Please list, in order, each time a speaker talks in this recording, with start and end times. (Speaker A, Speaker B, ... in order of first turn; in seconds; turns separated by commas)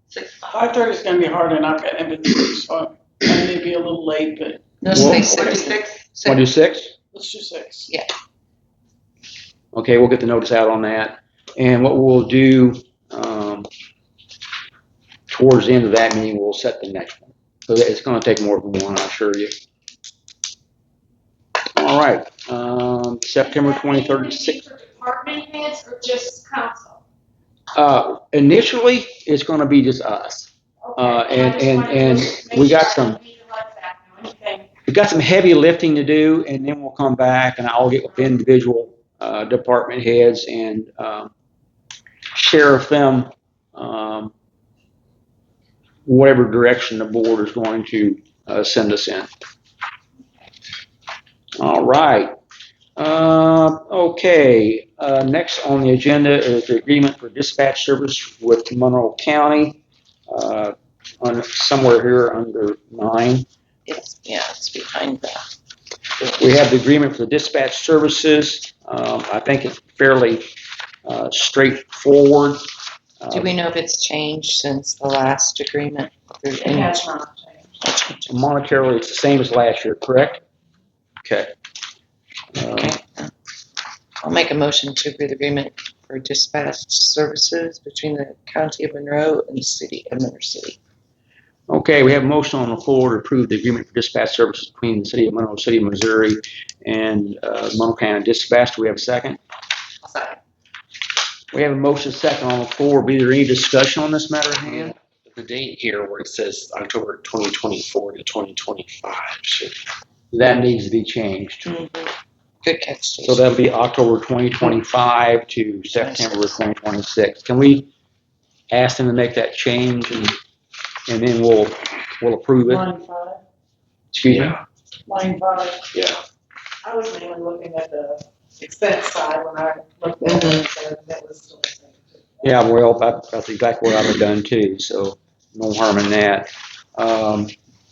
Speaker A: 0.1-0.8, Speaker B: 0.5-5.7, Speaker A: 4.8-6.5, Speaker C: 4.9-5.7, Speaker C: 6.2-6.9, Speaker B: 7.1-7.9, Speaker C: 9.7-13.7, Speaker C: 15.3-19.5, Speaker C: 21.8-24.6, Speaker D: 23.7-27.0, Speaker C: 27.8-33.2, Speaker D: 30.9-34.7, Speaker C: 34.9-41.3, Speaker C: 42.3-44.3, Speaker C: 46.1-49.3, Speaker C: 51.6-52.3, Speaker C: 53.0-63.5, Speaker A: 63.9-65.5, Speaker C: 66.4-70.5, Speaker C: 71.0-72.6, Speaker C: 73.2-73.5, Speaker A: 73.3-77.1, Speaker D: 76.6-77.0, Speaker E: 77.1-77.6, Speaker A: 77.8-78.3, Speaker C: 78.3-80.4, Speaker C: 81.2-81.5, Speaker C: 82.5-83.0, Speaker A: 82.7-83.3, Speaker A: 84.2-90.8, Speaker C: 91.7-99.4, Speaker A: 100.0-100.4, Speaker C: 101.5-104.9, Speaker F: 104.7-109.8, Speaker C: 110.3-111.7, Speaker A: 111.6-113.4, Speaker C: 113.2-117.9, Speaker A: 115.9-116.6, Speaker C: 118.7-120.4, Speaker C: 121.1-122.9, Speaker B: 122.7-123.4, Speaker C: 124.1-124.6, Speaker F: 124.3-124.6, Speaker B: 125.1-125.9, Speaker F: 125.9-126.2, Speaker E: 126.9-132.2, Speaker D: 128.8-131.2, Speaker A: 130.3-130.6, Speaker C: 132.4-137.5